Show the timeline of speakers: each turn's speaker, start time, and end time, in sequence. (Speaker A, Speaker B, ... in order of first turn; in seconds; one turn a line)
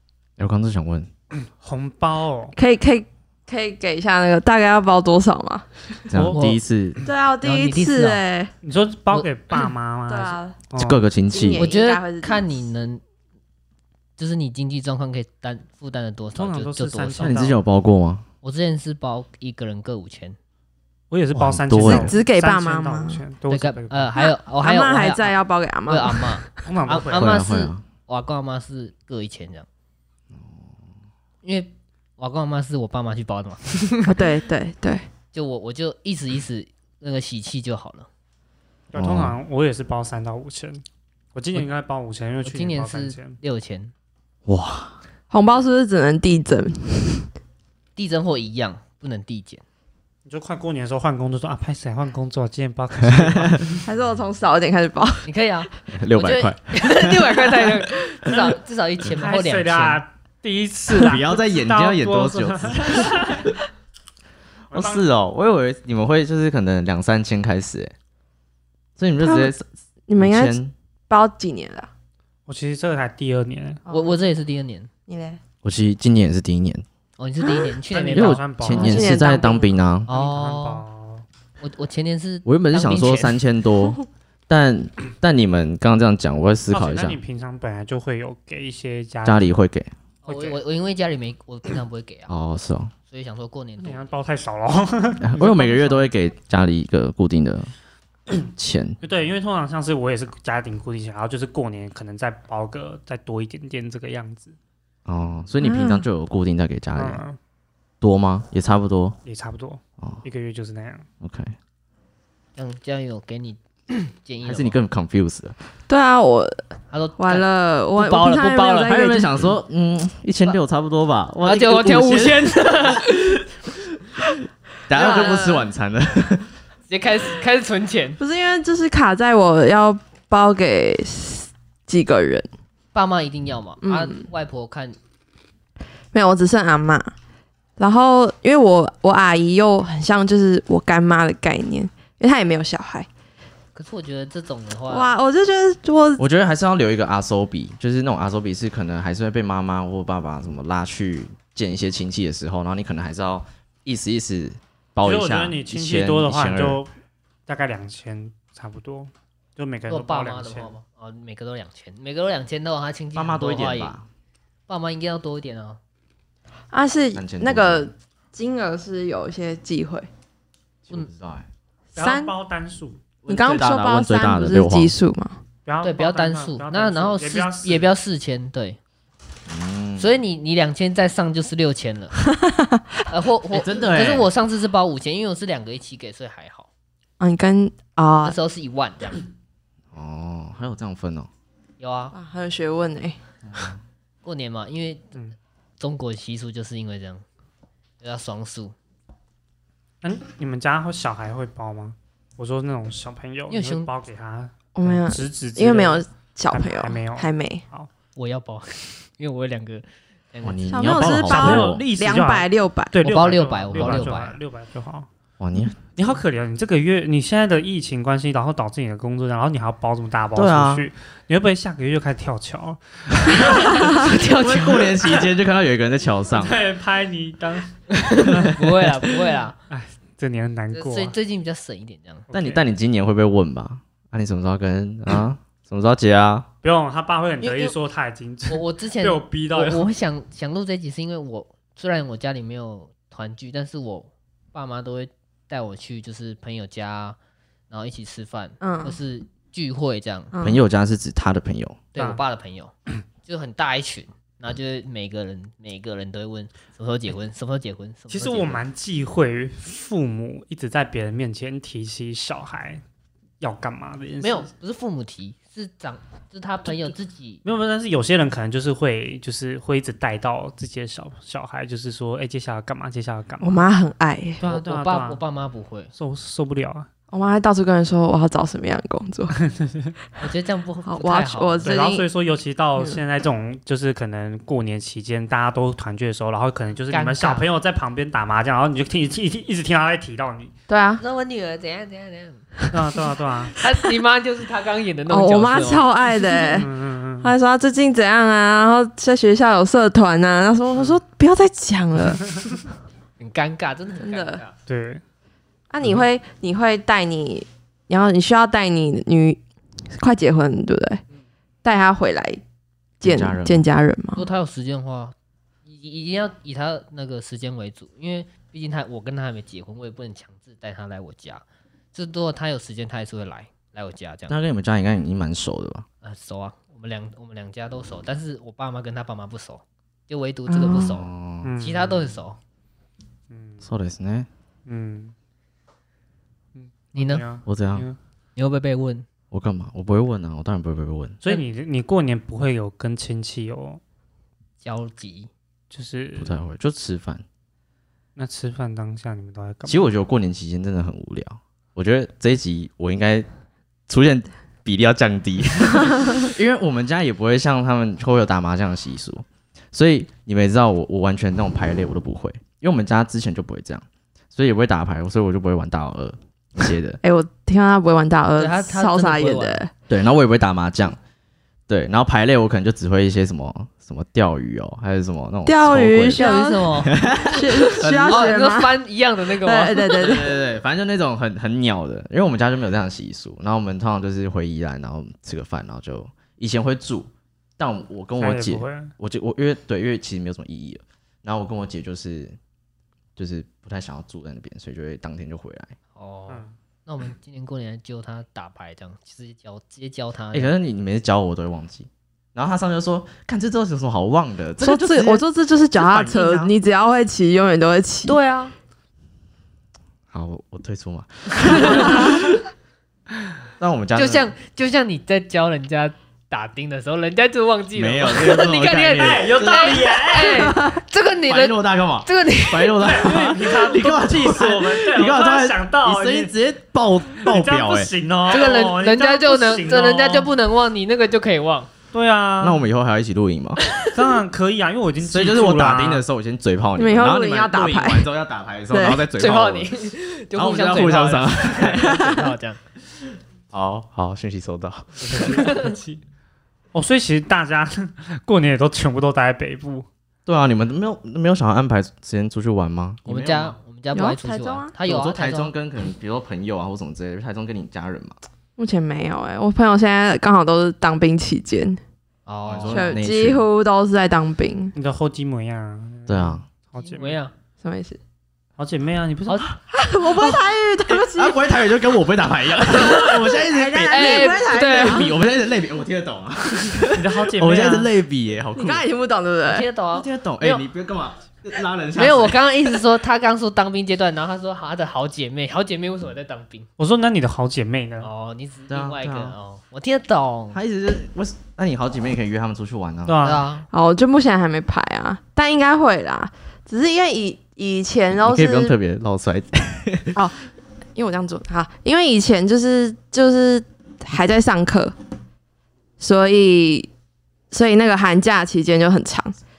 Speaker A: 0.4-1.1
Speaker B: 1.3-2.5
Speaker C: 2.5-6.0
Speaker A: 6.1-7.0
Speaker B: 6.1-6.5
Speaker D: 6.3-6.6
Speaker C: 7.0-8.5
Speaker D: 7.4-8.2
Speaker B: 8.6-11.0
Speaker C: 10.1-10.6
Speaker A: 10.8-11.7
Speaker C: 11.3-12.5
Speaker D: 11.5-13.0
Speaker D: 14.2-17.4
Speaker B: 16.3-17.6
Speaker A: 17.2-18.2
Speaker D: 18.4-20.4
Speaker B: 21.1-24.1
Speaker A: 21.3-22.1
Speaker C: 21.8-23.2
Speaker D: 23.5-25.3
Speaker C: 24.2-26.5
Speaker D: 25.9-29.7
Speaker B: 26.6-27.4
Speaker A: 27.1-27.8
Speaker A: 30.3-30.6
Speaker D: 31.4-34.2
Speaker C: 34.0-35.1
Speaker D: 35.3-38.1
Speaker A: 38.9-39.3
Speaker B: 38.9-40.8
Speaker B: 41.3-43.4
Speaker D: 42.4-43.9
Speaker A: 44.5-44.9
Speaker C: 45.3-47.3
Speaker D: 48.0-49.6
Speaker B: 50.2-53.8
Speaker A: 53.1-53.6
Speaker C: 53.8-55.3
Speaker D: 55.2-60.0
Speaker A: 55.9-57.7
Speaker B: 59.1-63.5
Speaker A: 60.9-63.5
Speaker B: 64.7-65.0
Speaker A: 64.7-67.9
Speaker A: 69.0-70.7
Speaker C: 69.2-69.5
Speaker C: 70.1-70.6
Speaker C: 71.1-71.9
Speaker B: 72.5-73.8
Speaker C: 73.8-74.2
Speaker D: 73.9-74.9
Speaker C: 75.1-75.4
Speaker A: 75.6-76.8
Speaker D: 77.2-78.5
Speaker B: 77.9-79.2
Speaker A: 78.1-80.1
Speaker C: 78.7-79.7
Speaker D: 80.1-80.8
Speaker B: 80.1-81.2
Speaker D: 81.6-83.4
Speaker A: 82.4-87.2
Speaker B: 86.7-89.5
Speaker A: 89.2-89.9
Speaker B: 90.2-90.6
Speaker D: 90.2-92.3
Speaker A: 92.3-92.9
Speaker D: 93.1-94.1
Speaker B: 93.8-96.1
Speaker A: 95.2-97.7
Speaker A: 98.5-99.0
Speaker B: 99.0-104.5
Speaker A: 105.0-107.2
Speaker C: 105.6-106.1
Speaker B: 107.0-107.4
Speaker A: 108.0-109.2
Speaker B: 109.2-111.0
Speaker A: 111.2-111.5
Speaker D: 112.5-114.8
Speaker A: 114.4-115.5
Speaker C: 115.9-116.6
Speaker D: 116.9-119.0
Speaker C: 117.2-119.5
Speaker A: 118.8-123.0
Speaker D: 121.3-123.4
Speaker A: 124.9-126.5
Speaker C: 124.9-125.7
Speaker D: 125.0-125.5
Speaker D: 126.9-128.2
Speaker C: 128.2-132.5
Speaker D: 132.9-135.0
Speaker C: 133.8-134.3
Speaker C: 136.1-137.1
Speaker C: 137.8-143.1
Speaker D: 143.7-145.1
Speaker C: 144.9-146.2
Speaker A: 146.2-156.8
Speaker B: 155.0-156.9
Speaker B: 157.5-160.7
Speaker D: 159.9-164.0
Speaker A: 163.1-164.1
Speaker D: 164.7-165.8
Speaker C: 166.7-170.1
Speaker A: 167.1-167.8
Speaker A: 170.9-171.5
Speaker B: 171.9-173.0
Speaker C: 171.9-172.3
Speaker A: 173.2-174.9
Speaker C: 173.3-175.4
Speaker B: 175.7-177.9
Speaker D: 175.8-178.8
Speaker A: 179.5-180.1
Speaker D: 180.0-182.1
Speaker C: 182.2-182.8
Speaker D: 183.1-186.7
Speaker A: 183.5-184.3
Speaker C: 187.2-188.3
Speaker D: 188.2-189.2
Speaker A: 189.9-191.3
Speaker D: 191.8-192.1
Speaker C: 192.1-193.2
Speaker A: 193.4-193.8
Speaker D: 194.2-195.1
Speaker D: 195.8-197.2
Speaker D: 198.0-198.7
Speaker B: 200.0-207.9
Speaker D: 203.5-203.9
Speaker C: 204.7-207.6
Speaker D: 208.2-211.2
Speaker A: 210.4-211.8
Speaker C: 210.7-212.9
Speaker B: 211.1-215.1
Speaker D: 213.0-214.4
Speaker A: 215.4-215.9
Speaker B: 215.9-224.0
Speaker A: 220.3-220.9
Speaker A: 223.3-226.6
Speaker D: 223.4-225.2
Speaker B: 226.3-227.7
Speaker D: 227.9-229.6
Speaker A: 228.2-228.9
Speaker B: 229.7-231.2
Speaker D: 230.7-232.3
Speaker B: 232.3-232.7
Speaker A: 232.3-236.5
Speaker B: 236.6-239.9
Speaker D: 237.4-237.7
Speaker D: 238.5-247.2
Speaker D: 247.7-250.3
Speaker C: 248.6-249.0
Speaker C: 250.3-250.6
Speaker A: 250.4-251.8
Speaker D: 251.9-252.7
Speaker B: 251.9-252.2
Speaker D: 253.2-258.6
Speaker B: 258.1-262.8
Speaker B: 263.4-264.5
Speaker D: 264.2-267.4
Speaker B: 266.6-266.9
Speaker B: 267.4-273.6
Speaker C: 273.4-274.4
Speaker B: 274.4-275.2
Speaker D: 274.4-275.9
Speaker B: 275.9-276.9
Speaker C: 277.1-279.3
Speaker B: 279.3-279.9
Speaker D: 280.2-281.7
Speaker C: 280.9-282.1
Speaker B: 281.6-290.5
Speaker D: 286.9-287.5
Speaker C: 290.7-291.0
Speaker D: 291.0-292.5
Speaker B: 292.7-293.6
Speaker D: 293.6-295.9
Speaker C: 295.1-296.7
Speaker B: 296.5-297.3
Speaker C: 297.2-302.5
Speaker D: 303.2-304.5
Speaker C: 304.0-304.4
Speaker B: 304.7-305.0
Speaker C: 305.7-311.0
Speaker C: 311.6-312.4
Speaker C: 313.0-314.2
Speaker A: 313.0-313.6
Speaker D: 314.1-315.1
Speaker D: 315.6-324.3
Speaker A: 324.3-325.8
Speaker D: 326.0-331.1
Speaker C: 330.5-330.9
Speaker A: 330.8-331.5
Speaker B: 331.4-332.1
Speaker D: 331.6-332.4
Speaker B: 333.3-333.6
Speaker A: 333.6-334.3
Speaker B: 334.6-335.1
Speaker B: 336.5-338.0
Speaker D: 336.9-337.2
Speaker A: 337.4-337.9
Speaker D: 338.4-339.1
Speaker A: 339.3-341.2
Speaker B: 341.2-343.8
Speaker D: 344.6-345.3
Speaker B: 345.7-346.4
Speaker A: 346.2-347.2
Speaker B: 348.2-349.9
Speaker A: 349.7-353.3
Speaker A: 353.9-367.0
Speaker C: 367.0-369.7
Speaker D: 368.4-369.6
Speaker A: 369.9-371.0
Speaker A: 371.7-376.2
Speaker C: 375.4-378.8
Speaker D: 376.1-380.3
Speaker A: 376.9-378.3
Speaker C: 379.4-380.4
Speaker A: 379.9-392.4
Speaker B: 388.2-388.9
Speaker A: 393.2-395.8
Speaker D: 395.9-400.5
Speaker A: 400.3-405.2
Speaker C: 404.6-408.1
Speaker B: 405.9-406.5
Speaker D: 408.1-408.5
Speaker A: 410.1-412.4
Speaker D: 411.4-412.3
Speaker A: 413.6-414.3
Speaker D: 413.9-422.9
Speaker A: 417.7-419.9
Speaker B: 418.1-420.6
Speaker A: 421.3-427.9
Speaker B: 422.8-426.3
Speaker B: 427.2-430.3
Speaker D: 428.3-431.7
Speaker B: 431.9-432.7
Speaker A: 432.4-433.7
Speaker B: 433.8-436.1
Speaker A: 435.0-439.7
Speaker C: 436.8-438.1
Speaker C: 438.7-439.0
Speaker D: 439.2-442.6
Speaker A: 440.3-442.1
Speaker C: 441.8-442.2
Speaker A: 443.5-445.5
Speaker B: 445.0-446.0
Speaker D: 445.3-445.7
Speaker B: 446.7-449.9
Speaker A: 450.2-453.6
Speaker D: 453.1-455.5
Speaker C: 453.9-454.8
Speaker A: 454.8-458.2
Speaker C: 458.6-461.8
Speaker D: 462.2-463.0
Speaker A: 462.4-463.4
Speaker C: 462.6-464.8
Speaker B: 464.7-467.2
Speaker A: 466.1-466.4
Speaker D: 466.8-467.3
Speaker C: 467.6-468.0
Speaker B: 468.6-469.4
Speaker C: 469.7-471.4
Speaker A: 470.1-478.8
Speaker D: 472.7-473.3
Speaker C: 472.8-475.1
Speaker D: 473.9-475.1
Speaker B: 476.9-477.9
Speaker C: 478.5-479.7
Speaker D: 479.4-480.6
Speaker A: 479.9-482.4
Speaker D: 481.9-486.7
Speaker B: 486.8-488.1
Speaker D: 488.0-490.6
Speaker A: 488.7-489.4
Speaker A: 490.5-493.2
Speaker B: 493.1-493.5
Speaker D: 493.2-493.6
Speaker C: 493.7-498.8
Speaker A: 498.2-500.1
Speaker C: 500.9-504.9
Speaker C: 506.0-506.9
Speaker C: 507.5-509.3